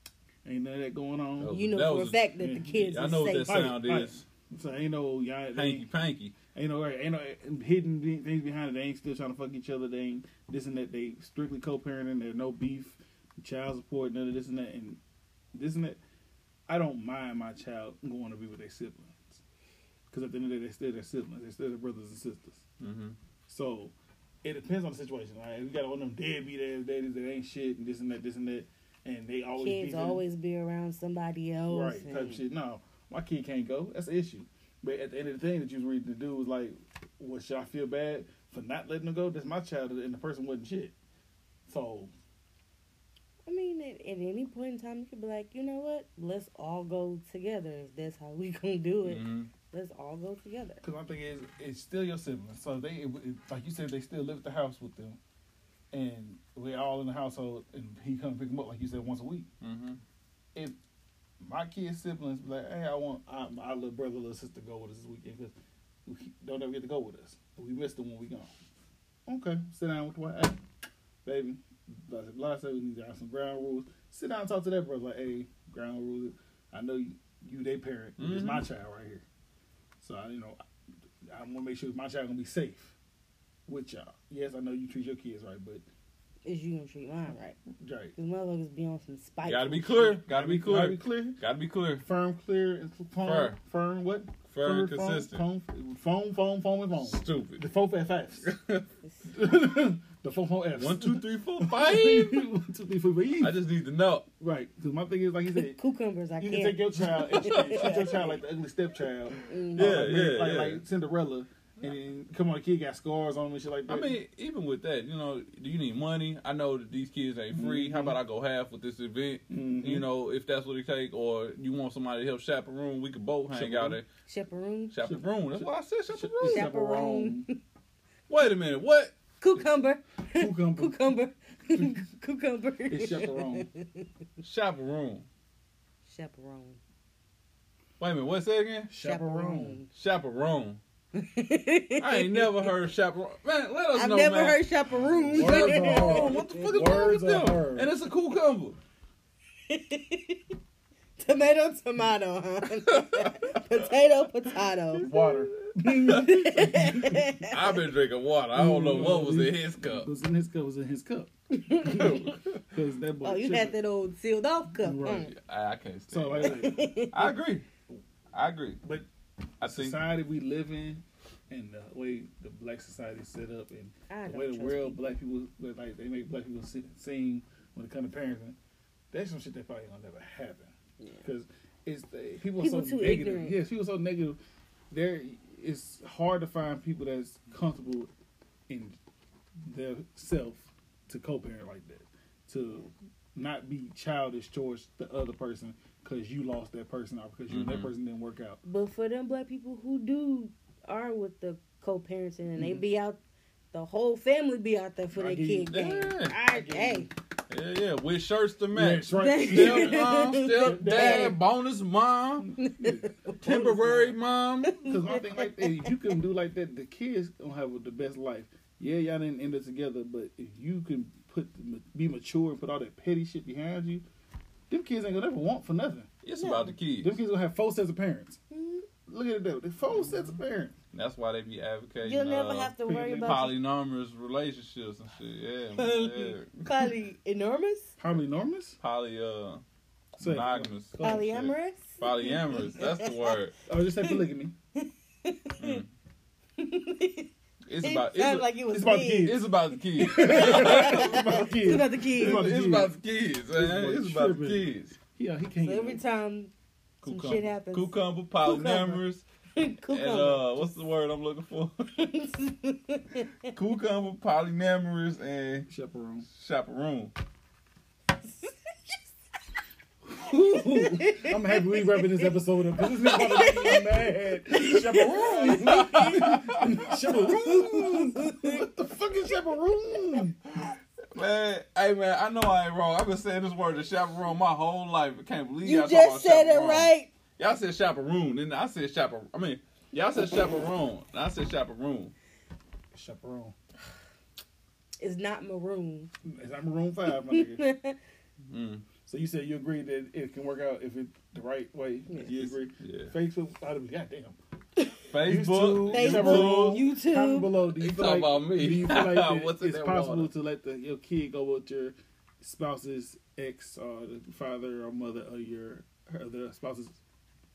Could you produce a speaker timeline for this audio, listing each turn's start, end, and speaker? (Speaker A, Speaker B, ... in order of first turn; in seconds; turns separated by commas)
Speaker A: 0.4-1.6, Speaker B: 1.4-4.2, Speaker C: 1.5-3.7, Speaker A: 2.4-2.9, Speaker A: 3.4-5.9, Speaker B: 5.5-6.3, Speaker A: 6.5-15.0, Speaker A: 15.5-16.0, Speaker A: 16.7-19.4, Speaker A: 20.1-22.6, Speaker B: 22.8-23.2, Speaker A: 23.5-30.2, Speaker C: 29.6-32.4, Speaker A: 31.7-40.9, Speaker A: 41.7-42.1, Speaker C: 43.5-50.8, Speaker B: 49.0-49.5, Speaker A: 50.8-55.2, Speaker A: 55.9-59.5, Speaker B: 59.6-60.0, Speaker A: 61.4-68.5, Speaker A: 69.2-70.6, Speaker A: 71.2-79.2, Speaker B: 78.2-78.7, Speaker A: 80.0-80.6, Speaker A: 81.3-82.9, Speaker A: 83.7-85.8, Speaker C: 86.4-87.6, Speaker A: 87.7-88.2, Speaker C: 88.2-90.2, Speaker B: 89.4-92.0, Speaker A: 90.2-91.4, Speaker A: 92.0-98.5, Speaker B: 93.2-93.6, Speaker B: 94.5-95.4, Speaker B: 97.0-97.6, Speaker B: 98.4-98.8, Speaker A: 99.3-103.6, Speaker B: 100.7-102.5, Speaker B: 103.4-104.3, Speaker A: 104.4-105.8, Speaker C: 105.6-108.4, Speaker A: 106.4-114.2, Speaker B: 107.2-108.1, Speaker C: 109.4-110.1, Speaker B: 109.7-110.8, Speaker B: 113.9-124.0, Speaker A: 117.5-118.2, Speaker A: 119.5-120.1, Speaker A: 123.5-124.0, Speaker C: 124.2-124.9, Speaker B: 124.9-126.7, Speaker A: 125.0-127.5, Speaker C: 126.5-127.6, Speaker B: 128.3-129.6, Speaker C: 129.4-134.1, Speaker A: 130.3-131.0, Speaker A: 132.9-133.7, Speaker B: 134.4-135.3, Speaker C: 136.0-136.8, Speaker B: 138.0-138.9, Speaker A: 138.9-139.8, Speaker C: 139.0-139.9, Speaker B: 139.9-140.8, Speaker C: 141.1-142.7, Speaker B: 142.0-144.7, Speaker C: 143.9-147.1, Speaker A: 144.9-147.9, Speaker B: 145.2-148.8, Speaker C: 149.7-150.4, Speaker C: 151.2-155.1, Speaker B: 152.9-153.6, Speaker B: 154.9-156.9, Speaker A: 155.0-157.4, Speaker C: 156.0-157.7, Speaker B: 157.4-160.1, Speaker A: 158.5-163.8, Speaker C: 161.5-162.4, Speaker B: 162.0-162.6, Speaker C: 163.2-165.3, Speaker A: 164.8-165.3, Speaker B: 165.3-167.7, Speaker A: 166.1-166.9, Speaker C: 166.4-167.3, Speaker B: 168.3-168.8, Speaker A: 168.8-169.1, Speaker B: 169.6-170.0, Speaker A: 169.6-178.6, Speaker C: 174.1-175.2, Speaker A: 179.1-184.4, Speaker C: 182.6-183.6, Speaker A: 184.9-188.1, Speaker A: 188.7-189.0, Speaker A: 189.6-198.6, Speaker B: 197.5-197.9, Speaker C: 198.6-203.2, Speaker A: 202.6-202.8, Speaker C: 203.7-207.1, Speaker A: 205.1-205.8, Speaker B: 205.7-206.4, Speaker A: 206.4-207.1, Speaker B: 207.5-212.5, Speaker A: 208.7-211.4, Speaker C: 209.1-211.3, Speaker A: 212.4-214.1, Speaker C: 212.6-214.1, Speaker B: 213.4-214.9, Speaker C: 214.6-215.9, Speaker A: 214.8-224.0, Speaker A: 224.7-226.1, Speaker B: 226.2-227.2, Speaker C: 226.4-226.7, Speaker A: 227.0-230.8, Speaker C: 228.5-228.8, Speaker B: 229.9-230.4, Speaker B: 230.9-236.6, Speaker C: 232.0-233.5, Speaker A: 232.8-233.5, Speaker C: 235.8-237.9, Speaker A: 238.0-238.8, Speaker B: 238.8-239.6, Speaker B: 240.2-243.5, Speaker A: 240.2-241.3, Speaker C: 241.0-243.3, Speaker A: 243.7-244.5, Speaker C: 244.7-245.8, Speaker B: 245.6-245.9, Speaker C: 246.6-252.4, Speaker B: 247.7-248.5, Speaker A: 248.7-249.4, Speaker B: 249.2-251.5, Speaker A: 250.0-252.9, Speaker B: 252.1-255.0, Speaker A: 253.5-256.0, Speaker C: 255.6-256.5, Speaker B: 257.0-259.2, Speaker C: 257.0-259.0, Speaker C: 259.6-260.6, Speaker B: 259.9-261.9, Speaker C: 261.9-263.5, Speaker B: 263.5-265.7, Speaker A: 265.7-266.3, Speaker B: 266.3-267.1, Speaker C: 268.2-269.0, Speaker A: 270.1-280.4, Speaker C: 270.3-272.2, Speaker C: 273.0-273.9, Speaker B: 273.1-273.6, Speaker C: 274.5-276.4, Speaker B: 275.0-278.1, Speaker C: 277.1-278.6, Speaker B: 281.1-292.1, Speaker C: 285.6-287.1, Speaker A: 292.9-293.5, Speaker C: 295.0-296.1, Speaker A: 296.2-297.6, Speaker C: 297.2-298.0, Speaker B: 298.5-298.9, Speaker A: 299.0-304.4, Speaker B: 302.2-303.1, Speaker C: 304.8-305.0, Speaker B: 305.1-306.9, Speaker A: 305.2-317.0, Speaker C: 305.8-307.6, Speaker B: 307.7-310.3